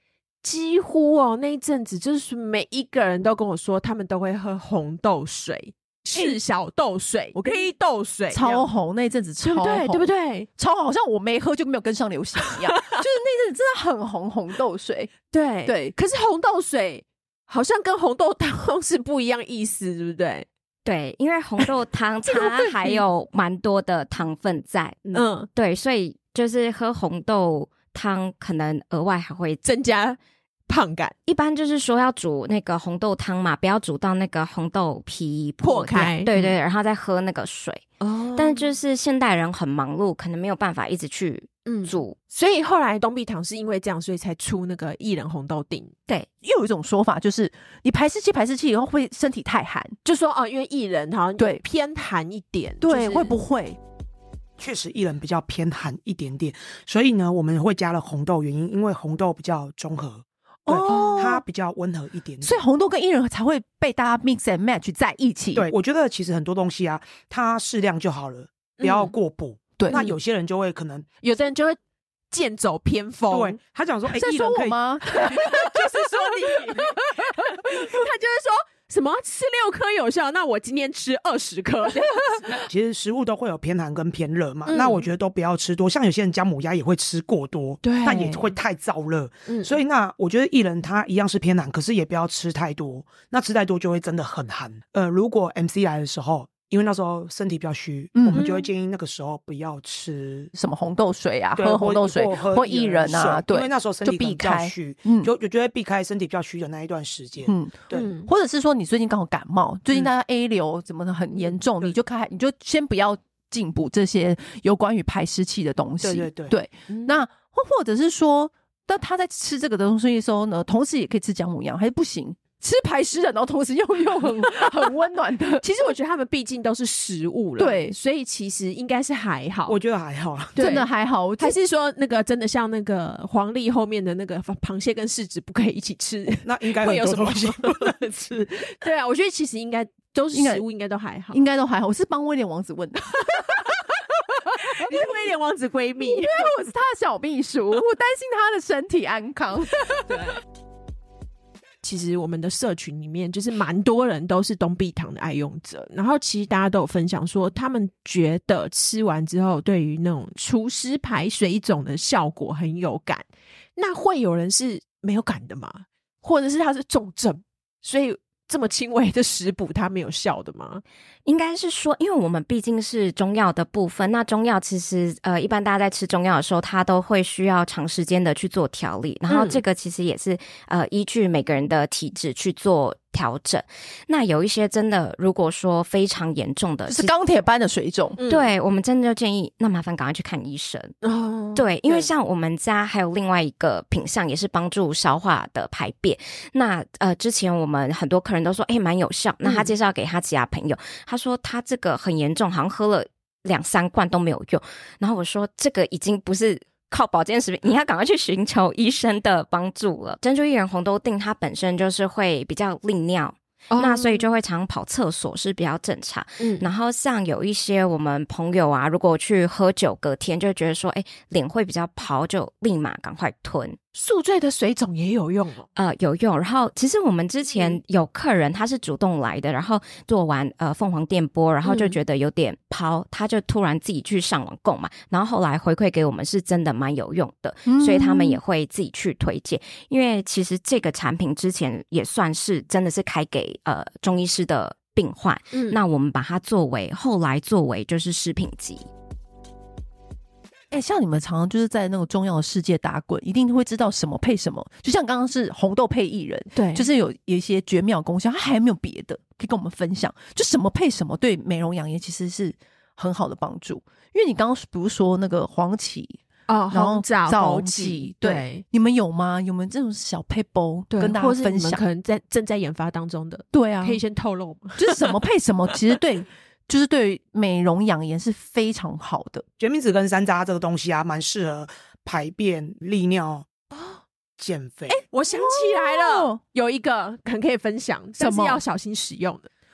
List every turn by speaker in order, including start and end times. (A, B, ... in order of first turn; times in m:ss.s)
0:00.4-0:08.7 A
0:06.1-0:06.4 B
0:07.3-0:07.7 B
0:08.3-0:15.9 B
0:09.4-0:10.5 A
0:12.6-0:13.0 A
0:15.3-0:20.4 A
0:20.8-0:29.6 C
0:22.3-0:23.0 A
0:25.1-0:25.5 A
0:29.6-0:31.1 A
0:31.2-0:37.8 C
0:35.6-0:36.5 A
0:38.0-0:38.7 A
0:38.4-0:42.2 C
0:41.6-0:45.9 A
0:46.4-0:50.0 B
0:50.0-0:53.3 A
0:52.8-0:53.8 B
0:54.6-1:02.6 D
1:00.6-1:01.4 B
1:00.9-1:01.2 A
1:02.4-1:05.7 B
1:05.5-1:11.0 D
1:08.8-1:09.1 A
1:09.9-1:10.2 A
1:11.2-1:11.8 A
1:12.3-1:13.6 A
1:13.3-1:16.9 D
1:14.1-1:15.7 B
1:15.1-1:22.6 A
1:22.7-1:40.5 D
1:24.6-1:25.1 A
1:27.8-1:28.6 A
1:29.5-1:29.8 A
1:38.1-1:38.4 B
1:38.3-1:38.7 A
1:40.5-1:45.3 B
1:41.6-1:48.1 D
1:47.4-2:05.9 B
1:47.9-1:48.3 A
1:56.0-1:56.6 D
1:56.9-1:57.2 A
2:05.6-2:09.8 A
2:07.6-2:08.0 B
2:09.7-2:10.6 D
2:10.5-2:10.9 A
2:10.6-2:11.6 B
2:11.4-2:21.4 A
2:16.4-2:18.5 D
2:20.3-2:20.6 B
2:21.3-2:23.6 B
2:23.3-2:26.5 A
2:24.8-2:25.0 B
2:26.0-2:30.1 B
2:29.8-2:30.4 A
2:31.8-2:43.2 A
2:43.8-2:50.8 A
2:51.2-3:07.1 C
2:59.3-2:59.6 A
3:06.9-3:08.2 B
3:08.2-3:08.5 A
3:08.3-3:10.9 C
3:11.0-3:12.1 A
3:11.5-3:43.8 C
3:19.4-3:19.7 A
3:33.7-3:34.3 A
3:36.4-3:36.7 A
3:43.9-3:45.7 A
3:45.8-4:08.9 C
3:51.6-3:52.0 A
3:57.6-3:58.4 B
4:05.5-4:05.8 A
4:10.7-4:31.8 B
4:16.5-4:16.9 A
4:26.5-4:28.6 A
4:30.9-4:35.2 A
4:33.5-4:34.0 B
4:34.8-4:39.4 B
4:39.6-4:43.5 D
4:43.7-4:44.0 A
4:44.4-4:45.0 D
4:44.9-4:49.5 A
4:45.3-4:46.4 B
4:48.2-4:48.6 B